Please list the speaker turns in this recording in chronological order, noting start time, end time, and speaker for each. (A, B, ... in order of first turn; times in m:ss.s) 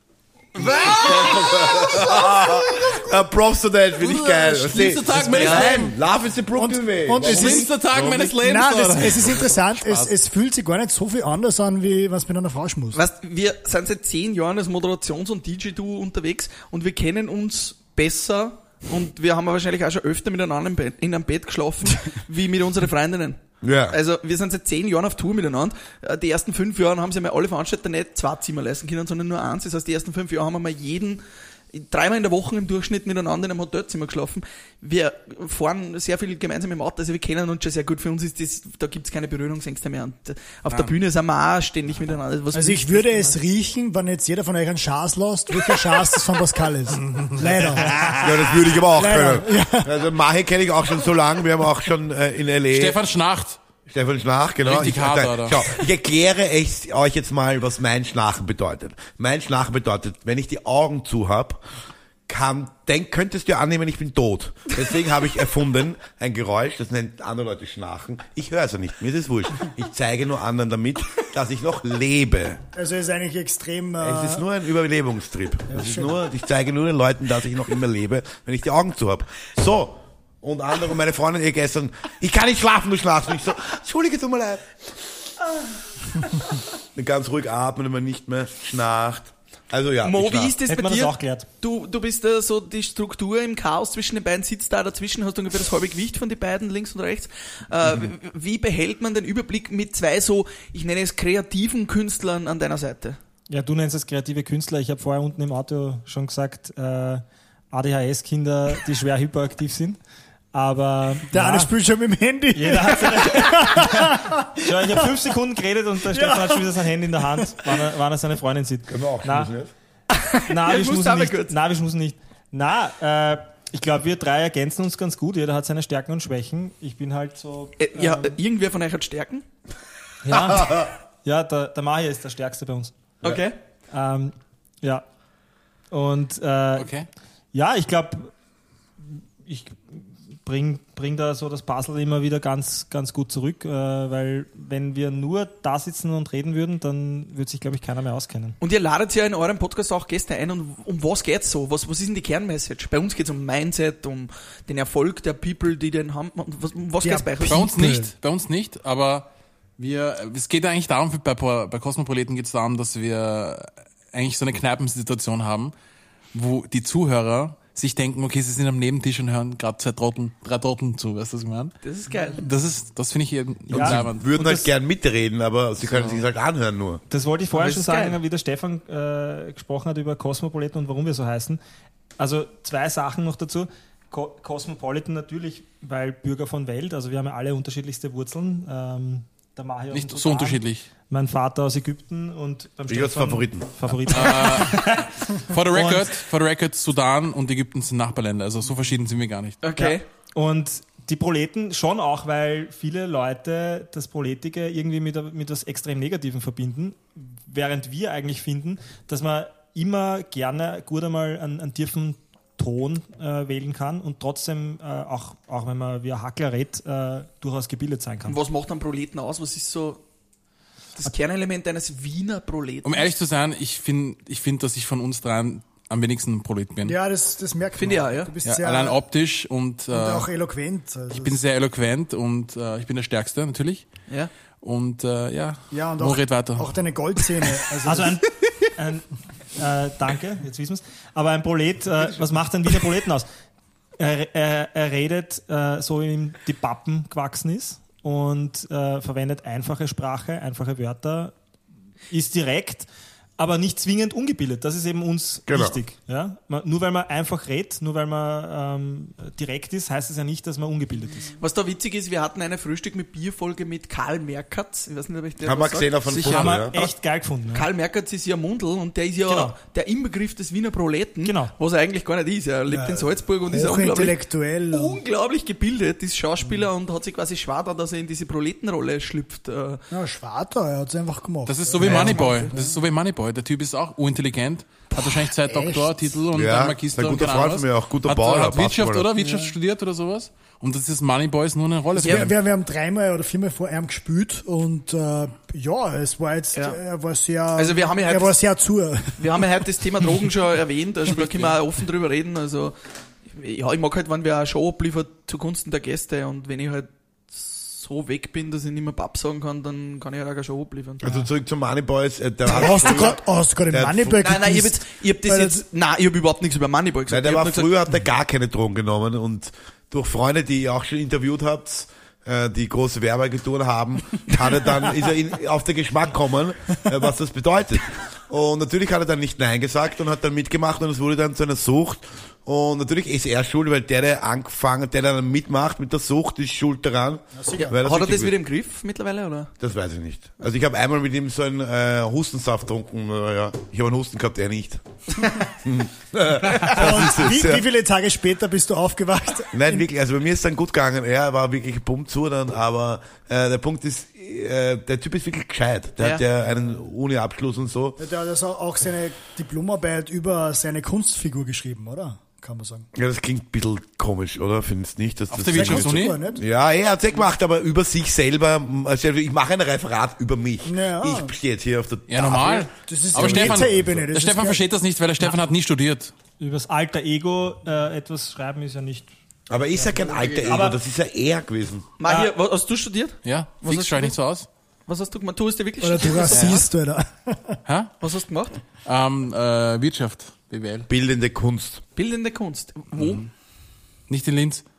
0:00.6-0:08.3 A
0:00.6-0:01.5 B
0:04.0-0:06.0 B
0:05.3-0:05.9 C
0:06.6-0:07.8 D
0:07.2-0:10.1 B
0:08.3-0:13.0 D
0:12.9-0:43.4 C
0:23.6-0:24.0 A
0:42.5-0:50.0 D
0:48.2-0:53.0 A
0:52.7-0:53.6 B
0:53.9-1:01.6 A
0:54.6-0:55.6 B
1:02.3-1:12.6 A
1:12.7-1:14.5 D
1:14.0-1:24.6 A
1:15.7-1:16.2 D
1:27.0-1:30.6 A
1:30.0-1:43.2 C
1:30.7-1:31.5 E
1:43.5-1:50.0 E
1:50.5-1:51.7 E
1:51.3-1:55.1 D
1:52.5-1:59.5 E
1:56.1-1:57.6 D
1:58.9-1:59.7 A
2:00.1-2:01.5 C
2:00.5-2:08.4 E
2:07.8-2:09.4 C
2:10.3-2:12.9 E
2:13.2-2:13.6 C
2:13.9-2:15.0 E
2:15.9-2:16.9 E
2:16.8-2:17.1 B
2:17.5-2:18.3 E
2:19.0-2:28.6 E
2:28.6-2:37.6 C
2:37.0-2:38.1 D
2:37.4-2:45.7 B
2:46.3-2:54.2 B
2:51.8-2:52.5 C
2:53.7-2:54.7 E
2:53.7-2:57.0 A
2:57.1-3:01.6 E
2:57.5-2:58.2 C
3:02.2-3:16.2 E
3:09.9-3:10.9 B
3:12.9-3:13.7 A
3:14.1-3:19.6 B
3:19.6-3:20.0 C
3:19.8-3:38.4 E
3:38.3-3:40.0 C
3:41.0-3:43.1 C
3:42.8-3:47.0 B
3:46.8-3:49.0 D
3:47.8-3:48.4 C
3:48.4-3:50.3 B
3:49.9-3:51.4 D
3:51.1-3:53.9 B
3:54.6-3:56.7 B
3:55.7-3:58.2 D
3:57.9-4:03.3 E
4:04.0-4:11.3 E
4:12.1-4:12.9 E
4:13.4-4:21.3 E
4:15.5-4:15.8 A
4:21.3-4:26.9 C
4:25.4-4:26.8 A
4:26.1-4:27.7 E
4:27.5-4:34.2 C
4:29.3-4:29.6 E
4:31.2-4:31.5 E
4:32.7-4:35.0 D
4:34.7-4:39.8 C
4:39.9-4:42.8 D
4:41.5-4:52.4 B
4:41.8-4:42.5 C
4:45.0-4:46.1 D
4:46.3-4:49.1 A
4:49.2-4:49.5 C
4:52.0-4:59.6 D
4:52.0-4:52.3 C
4:56.5-4:56.8 C
4:57.6-4:58.3 C
4:59.2-5:02.8 C
5:03.3-5:11.3 C
5:11.0-5:14.2 A
5:12.5-5:15.6 D
5:12.7-5:13.1 C
5:14.2-5:17.7 C
5:17.1-5:38.4 A
5:37.4-5:37.8 D
5:37.6-5:39.5 C
5:39.6-5:44.8 A
5:45.6-5:47.7 A
5:46.6-5:49.8 D
5:49.5-5:58.0 A
5:58.0-6:02.9 D
6:03.0-6:13.9 A
6:05.3-6:06.2 B
6:05.5-6:06.4 D
6:10.6-6:11.4 D
6:12.1-6:16.1 B
6:12.8-6:14.6 D
6:16.4-6:19.1 E
6:19.5-6:21.9 A
6:20.4-6:20.8 E
6:22.0-6:24.2 C
6:22.1-6:22.3 E
6:23.2-6:24.5 B
6:24.9-6:26.7 C
6:25.8-6:27.6 D
6:26.3-6:26.6 B
6:27.7-6:27.9 B
6:28.0-6:28.6 C
6:28.8-6:30.9 B
6:30.9-6:31.8 A
6:32.0-6:33.3 C
6:34.1-6:34.6 B